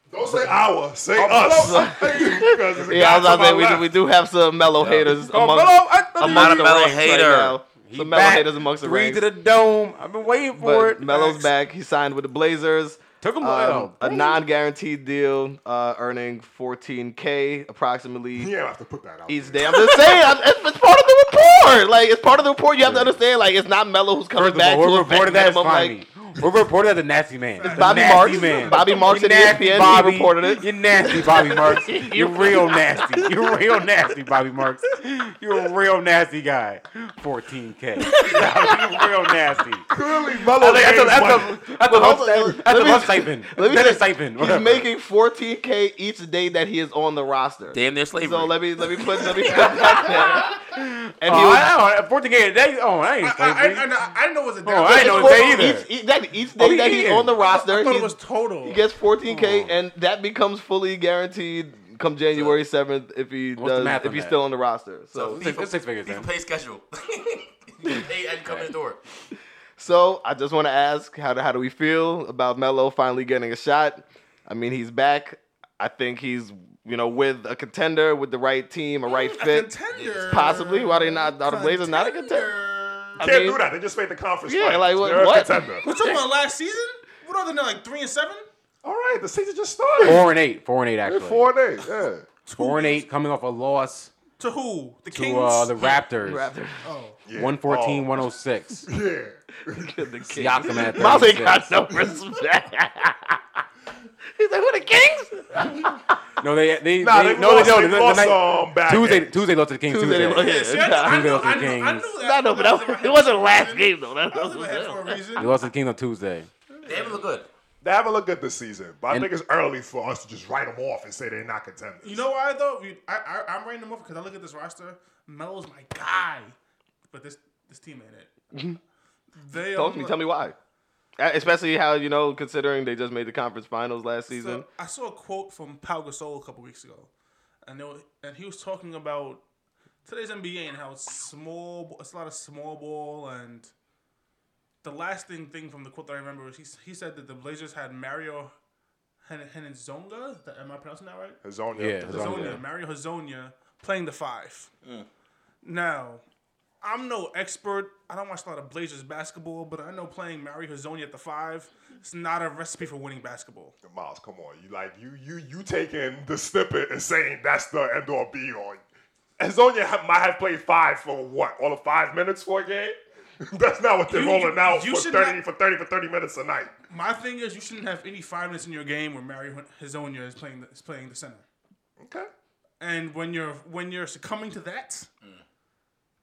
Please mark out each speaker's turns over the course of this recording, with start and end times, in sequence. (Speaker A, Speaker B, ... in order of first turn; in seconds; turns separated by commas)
Speaker A: 0.1-3.9, Speaker B: 1.1-2.2, Speaker C: 1.5-9.2, Speaker B: 4.8-6.8, Speaker D: 6.2-7.6, Speaker B: 7.8-11.4, Speaker C: 10.6-18.5, Speaker B: 13.2-14.4, Speaker A: 18.4-20.0, Speaker C: 19.3-26.0, Speaker B: 22.8-23.2, Speaker B: 24.3-39.9, Speaker E: 27.6-29.2, Speaker C: 27.6-33.3, Speaker A: 39.9-41.6, Speaker B: 40.6-44.9, Speaker C: 41.8-50.6, Speaker D: 47.7-48.6, Speaker E: 49.4-50.3, Speaker B: 49.5-53.9, Speaker C: 51.2-51.7, Speaker E: 53.2-55.8, Speaker B: 54.6-55.9, Speaker C: 54.9-65.4, Speaker B: 56.6-57.3, Speaker E: 57.4-58.8, Speaker B: 59.2-59.8, Speaker B: 63.6-64.4, Speaker D: 65.2-69.0, Speaker B: 65.2-66.3, Speaker C: 69.8-79.7, Speaker E: 79.1-83.3, Speaker D: 79.9-80.2, Speaker C: 80.3-82.5, Speaker C: 83.2-83.6, Speaker A: 83.2-85.8, Speaker C: 84.5-86.2, Speaker E: 85.8-88.5, Speaker A: 88.8-90.3, Speaker B: 90.0-91.5, Speaker A: 91.0-92.3, Speaker E: 92.5-93.0, Speaker B: 92.5-94.1, Speaker E: 94.4-96.0, Speaker B: 95.1-96.5, Speaker C: 96.2-96.8, Speaker E: 96.8-97.2, Speaker A: 97.2-98.1, Speaker B: 97.3-98.9, Speaker A: 98.9-100.1, Speaker C: 99.7-103.4, Speaker B: 100.4-101.7, Speaker A: 100.6-101.2, Speaker C: 104.3-106.0, Speaker B: 106.4-112.1, Speaker A: 107.0-109.5, Speaker C: 109.9-111.7, Speaker E: 110.2-115.5, Speaker C: 112.2-115.2, Speaker B: 115.4-116.5, Speaker E: 116.7-117.2, Speaker D: 116.8-117.5, Speaker A: 117.8-122.2, Speaker E: 122.0-126.5, Speaker E: 127.1-128.3, Speaker E: 129.4-130.3, Speaker C: 129.5-130.6, Speaker C: 131.2-134.7, Speaker E: 134.3-137.1, Speaker E: 137.6-139.4, Speaker E: 140.1-143.7, Speaker E: 144.8-148.5, Speaker E: 149.2-151.4, Speaker A: 151.4-152.6, Speaker B: 151.8-152.6, Speaker E: 152.1-154.7, Speaker E: 155.6-156.2, Speaker E: 156.8-163.7, Speaker A: 163.8-168.8, Speaker A: 169.4-176.7, Speaker E: 174.1-175.4, Speaker E: 176.9-181.4, Speaker A: 182.0-182.3, Speaker E: 182.8-185.1